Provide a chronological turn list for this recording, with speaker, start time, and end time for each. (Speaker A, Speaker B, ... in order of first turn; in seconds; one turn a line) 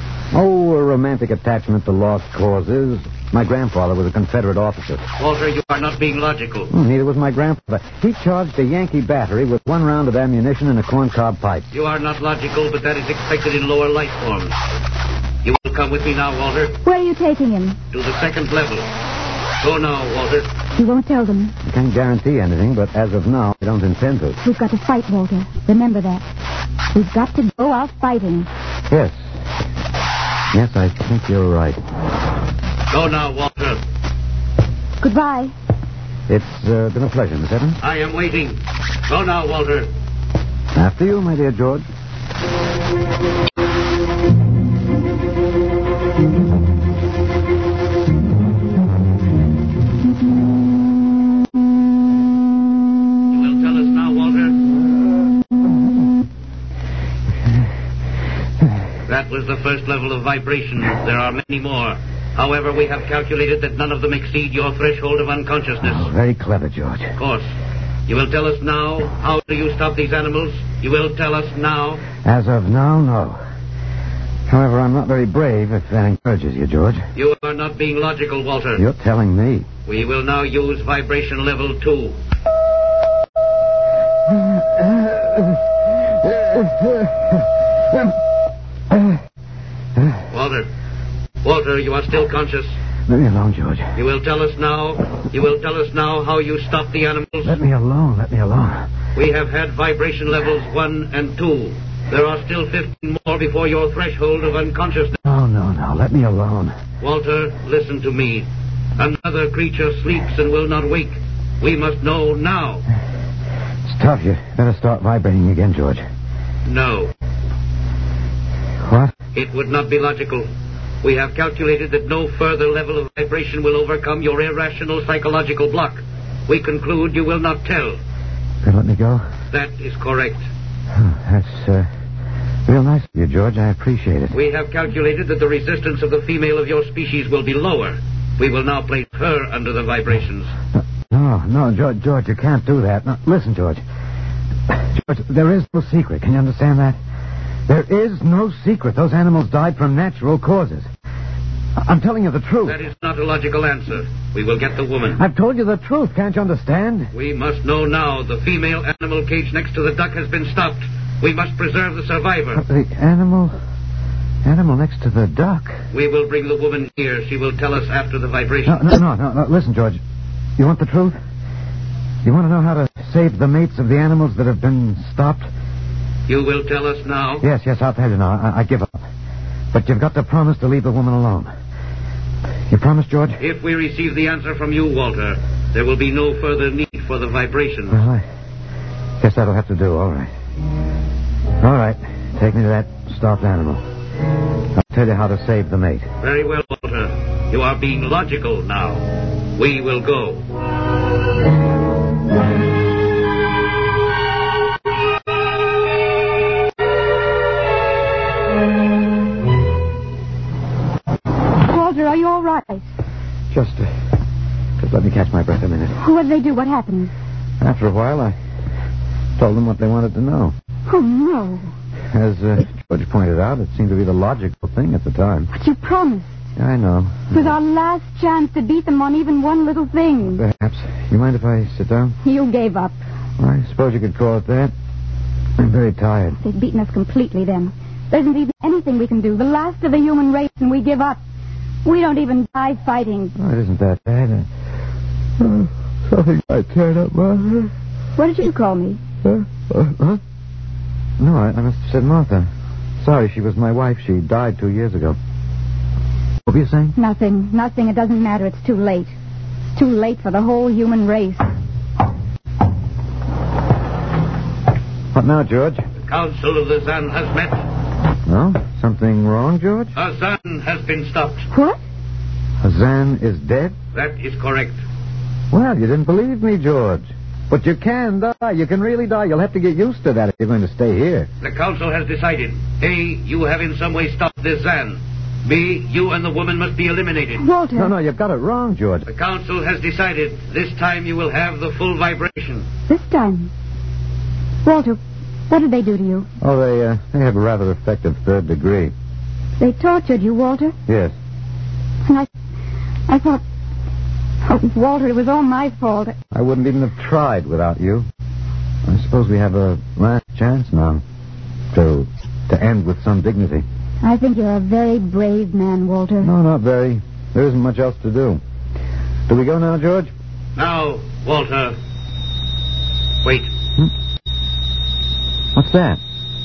Speaker A: 0.3-5.0
Speaker B: 5.2-6.7
Speaker A: 6.7-11.7
Speaker B: 11.7-14.6
Speaker B: 15.4-16.8
Speaker C: 16.9-17.8
Speaker B: 17.9-18.9
Speaker B: 19.6-20.5
Speaker C: 20.8-21.6
Speaker A: 21.6-24.4
Speaker C: 24.4-26.2
Speaker C: 26.9-28.5
Speaker A: 28.9-29.2
Speaker A: 30.5-31.8
Speaker B: 32.9-33.8
Speaker C: 35.0-35.5
Speaker A: 36.3-37.8
Speaker B: 37.8-39.9
Speaker A: 40.8-41.9
Speaker B: 53.3-54.6
Speaker B: 59.1-66.1
Speaker A: 65.8-67.2
Speaker B: 67.2-67.5
Speaker B: 68.1-72.1
Speaker A: 72.2-73.4
Speaker A: 74.5-77.1
Speaker B: 77.2-78.8
Speaker A: 78.8-79.7
Speaker B: 79.9-82.2
Speaker A: 84.3-88.2
Speaker A: 88.9-89.2
Speaker B: 90.3-90.7
Speaker B: 91.4-92.8
Speaker A: 93.1-93.9
Speaker B: 94.0-97.6
Speaker A: 97.5-98.9
Speaker B: 99.2-105.2
Speaker A: 105.2-106.8
Speaker B: 107.0-112.8
Speaker A: 113.9-116.0
Speaker B: 116.7-117.1
Speaker A: 118.8-119.1
Speaker B: 119.3-120.5
Speaker B: 121.0-128.0
Speaker A: 128.6-129.2
Speaker B: 129.5-130.5
Speaker A: 130.9-131.9
Speaker A: 132.7-134.3
Speaker B: 134.3-140.5
Speaker A: 141.1-143.8
Speaker A: 144.7-147.0
Speaker A: 147.7-150.9
Speaker A: 151.8-152.8
Speaker B: 152.7-155.2
Speaker A: 155.2-157.1
Speaker B: 157.1-162.6
Speaker A: 162.6-163.6
Speaker A: 164.4-165.8
Speaker B: 165.9-168.9
Speaker A: 168.7-170.0
Speaker A: 170.6-171.2
Speaker A: 172.2-175.5
Speaker B: 176.3-177.4
Speaker A: 177.4-179.0
Speaker A: 179.7-181.5
Speaker A: 182.7-183.4
Speaker B: 183.4-188.0
Speaker A: 187.9-188.2
Speaker A: 189.2-190.3
Speaker A: 191.6-193.8
Speaker A: 194.8-196.1
Speaker B: 196.2-200.4
Speaker C: 211.6-212.8
Speaker A: 213.5-213.9
Speaker A: 214.8-216.0
Speaker C: 216.0-217.1
Speaker A: 217.6-218.3
Speaker A: 219.4-220.5
Speaker C: 220.9-221.7
Speaker A: 222.1-225.5
Speaker C: 225.5-226.3
Speaker A: 226.6-227.5
Speaker C: 227.3-230.4
Speaker A: 230.4-232.2
Speaker C: 232.2-233.0
Speaker A: 233.4-234.7
Speaker A: 235.6-236.4
Speaker C: 236.4-241.2
Speaker C: 241.8-243.3
Speaker A: 243.4-244.5
Speaker A: 245.4-247.7
Speaker C: 248.2-249.0
Speaker A: 249.2-250.2
Speaker A: 251.2-252.5
Speaker A: 253.0-255.2
Speaker A: 256.5-256.9
Speaker C: 257.0-259.1
Speaker C: 259.8-261.5
Speaker A: 265.1-265.9
Speaker B: 266.0-267.6
Speaker A: 268.3-269.9
Speaker B: 270.0-271.5
Speaker C: 271.5-271.8
Speaker A: 272.6-273.8
Speaker B: 273.9-274.8
Speaker A: 275.5-281.3
Speaker B: 281.4-287.4
Speaker C: 287.4-287.9
Speaker A: 287.8-289.1
Speaker B: 289.1-292.6
Speaker C: 292.9-293.5
Speaker C: 294.6-296.3
Speaker A: 296.4-298.9
Speaker C: 299.6-300.8
Speaker A: 300.9-301.1
Speaker C: 303.1-303.4
Speaker C: 304.4-306.1
Speaker A: 306.3-308.1
Speaker A: 308.9-311.0
Speaker A: 311.7-313.6
Speaker C: 314.0-316.3
Speaker A: 316.2-318.4
Speaker A: 319.3-320.1
Speaker B: 320.6-321.8
Speaker B: 323.2-323.5
Speaker A: 325.6-326.0